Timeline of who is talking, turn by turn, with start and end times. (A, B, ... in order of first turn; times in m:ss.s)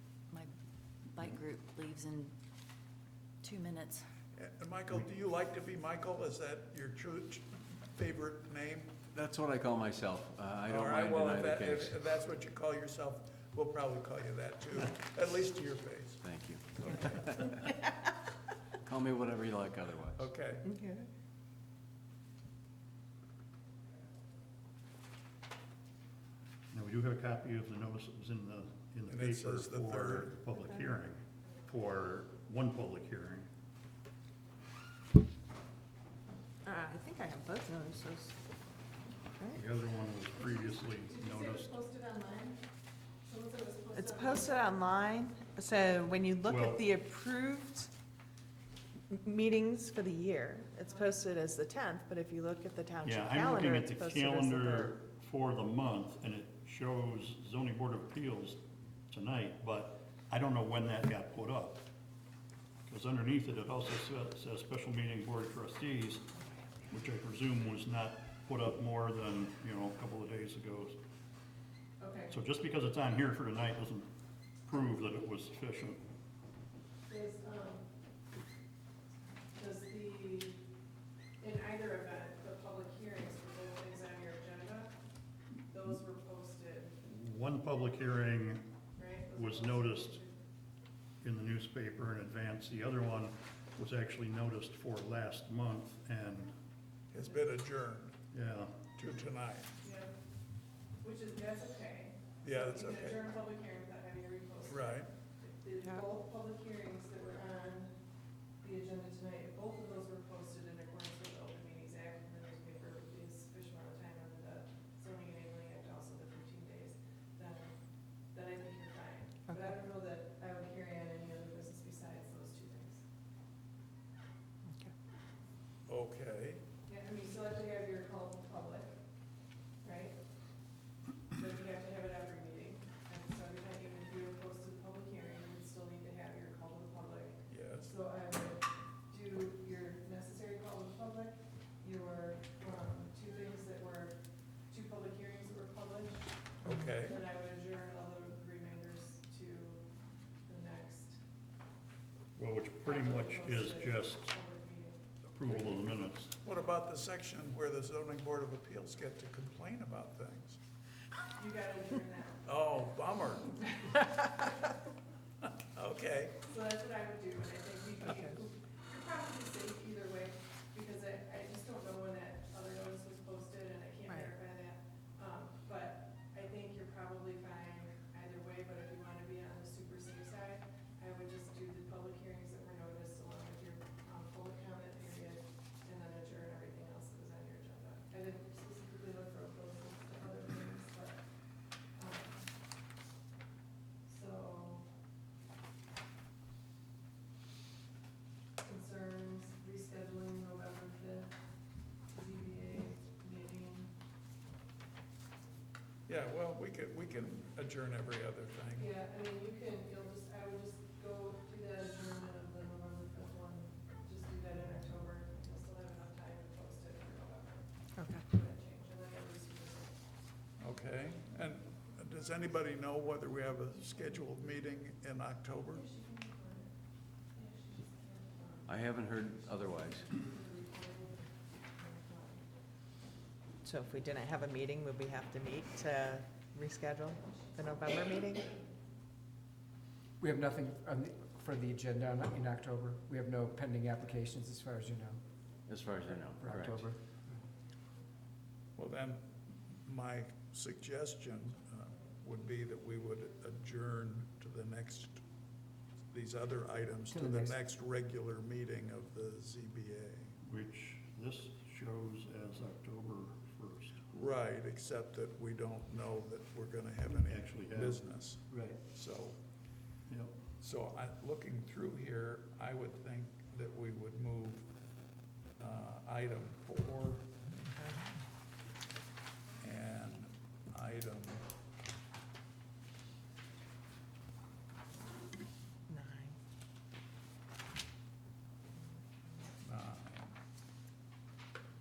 0:01.1-0:02.3 A
0:03.4-0:04.0 A
0:04.4-0:09.0 B
0:09.1-0:12.0 C
0:10.7-0:16.2 B
0:16.2-0:17.6 C
0:16.8-0:17.0 B
0:18.8-0:20.3 C
0:20.2-0:20.7 B
0:20.7-0:21.1 D
0:26.7-0:33.5 E
0:29.1-0:30.4 B
0:36.6-0:38.4 D
0:39.5-0:41.8 E
0:40.4-0:42.6 F
0:43.2-0:44.7 F
0:44.0-0:47.9 D
0:46.4-0:46.8 E
0:49.1-0:54.9 D
0:50.9-0:51.2 F
0:53.0-1:01.9 E
1:02.9-1:06.3 E
1:06.9-1:11.0 E
1:12.0-1:12.4 F
1:12.3-1:14.1 E
1:14.7-1:16.0 E
1:17.1-1:17.9 F
1:19.5-1:20.6 F
1:21.4-1:24.9 F
1:25.7-1:26.9 F
1:27.0-1:28.7 E
1:29.0-1:30.4 F
1:29.3-1:30.2 E
1:31.2-1:36.6 E
1:37.1-1:38.2 B
1:38.3-1:38.9 E
1:39.0-1:39.8 B
1:39.8-1:40.1 F
1:41.0-1:47.9 F
1:42.4-1:43.2 B
1:44.7-1:45.1 B
1:48.6-1:57.8 F
1:58.3-2:03.0 F
2:05.9-2:06.6 B
2:06.9-2:09.0 F
2:09.8-2:10.2 F
2:11.3-2:24.2 F
2:17.5-2:17.9 B
2:24.7-2:26.3 F
2:26.6-2:27.2 B
2:27.0-2:29.8 F
2:30.5-2:31.2 F
2:32.4-2:34.2 E
2:32.9-2:35.9 F
2:35.3-2:36.3 E
2:36.4-2:40.6 B
2:41.4-2:42.5 F
2:42.5-2:44.0 B
2:45.7-2:46.4 B
2:46.5-3:11.2 F
2:48.0-2:48.4 D
3:12.0-3:12.5 F
3:14.1-3:14.8 F
3:18.6-3:21.3 F
3:22.1-3:23.9 F
3:26.1-3:28.9 B
3:28.8-3:37.7 F
3:38.0-3:38.2 D
3:38.3-3:39.9 F
3:40.6-3:45.9 B
3:45.9-3:46.7 F
3:47.4-3:48.8 F
3:48.7-3:50.1 C
3:49.5-3:52.5 F
3:53.6-3:58.5 D
4:00.2-4:05.2 G
4:05.7-4:06.8 C
4:06.4-4:07.4 G
4:08.8-4:15.2 B
4:16.1-4:20.4 B
4:17.1-4:17.6 G
4:20.4-4:24.0 E
4:24.1-4:29.4 B
4:27.2-4:28.8 E
4:30.1-4:30.4 E
4:30.6-4:34.7 B
4:35.6-4:37.3 B
4:39.6-4:41.4 B
4:45.9-4:46.4 D
4:49.6-4:50.4 B